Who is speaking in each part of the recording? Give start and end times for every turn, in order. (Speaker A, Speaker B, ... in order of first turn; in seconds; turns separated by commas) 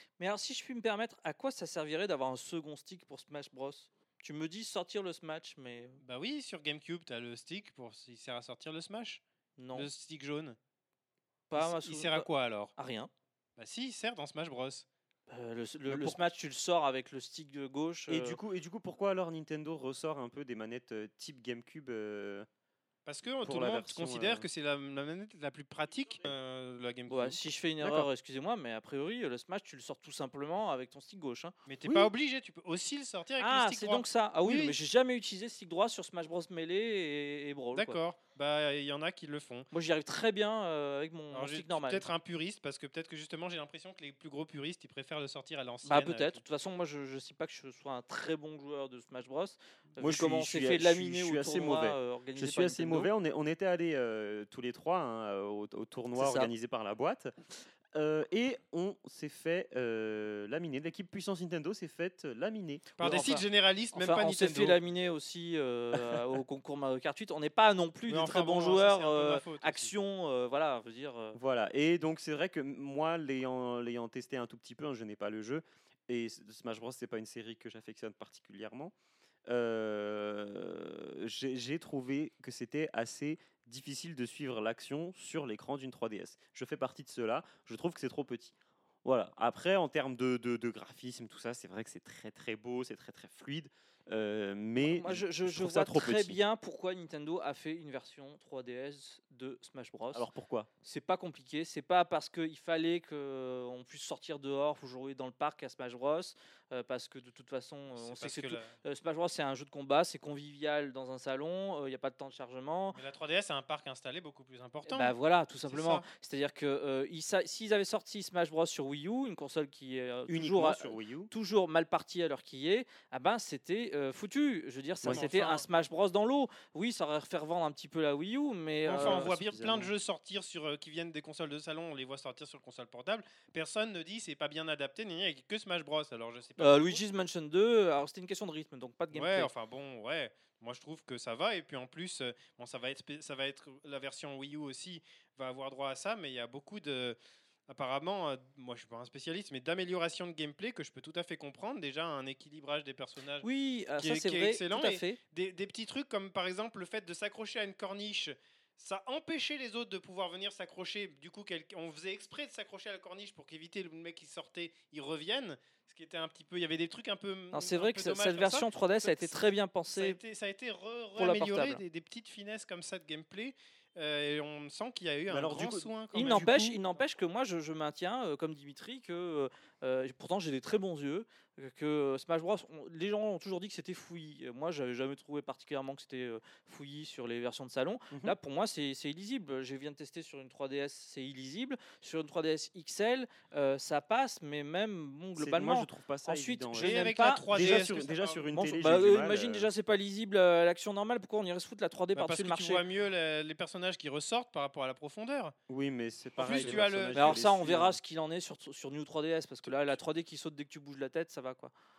Speaker A: 0.2-6.0, Speaker B: 6.0-9.2, Speaker A: 9.6-9.9, Speaker B: 9.7-10.6, Speaker A: 11.5-13.1, Speaker B: 11.5-12.7, Speaker B: 13.6-14.8, Speaker A: 15.3-18.4, Speaker C: 15.9-16.1, Speaker C: 18.1-22.5, Speaker B: 23.1-27.4, Speaker C: 23.4-24.4, Speaker A: 27.1-32.1, Speaker C: 27.8-28.1, Speaker B: 31.7-34.8, Speaker A: 33.4-38.0, Speaker B: 37.7-39.7, Speaker A: 39.7-42.0, Speaker B: 41.3-46.4, Speaker A: 45.8-53.1, Speaker C: 50.0-57.3, Speaker A: 56.1-56.5, Speaker C: 57.9-63.0, Speaker B: 63.0-64.8, Speaker A: 63.0-71.4, Speaker B: 68.1-69.9, Speaker C: 71.3-78.9, Speaker C: 79.5-96.4, Speaker A: 94.8-100.3, Speaker C: 100.1-100.7, Speaker A: 100.8-113.0, Speaker B: 108.0-108.7, Speaker B: 112.9-115.1, Speaker A: 114.9-129.3, Speaker B: 115.7-116.0, Speaker C: 120.3-121.3, Speaker C: 125.0-125.3, Speaker B: 125.0-125.6, Speaker B: 128.8-137.0, Speaker C: 128.9-129.9, Speaker A: 136.6-139.5, Speaker B: 139.1-147.2, Speaker B: 147.7-153.5, Speaker A: 153.4-155.2, Speaker B: 154.0-169.4, Speaker A: 167.5-170.2, Speaker B: 169.9-176.5, Speaker A: 171.2-171.8, Speaker C: 175.3-176.8, Speaker A: 176.1-197.9, Speaker C: 195.3-199.7, Speaker B: 196.7-198.5, Speaker A: 198.5-202.8, Speaker B: 202.1-205.5, Speaker C: 205.7-208.0, Speaker B: 206.3-207.5, Speaker A: 206.4-211.7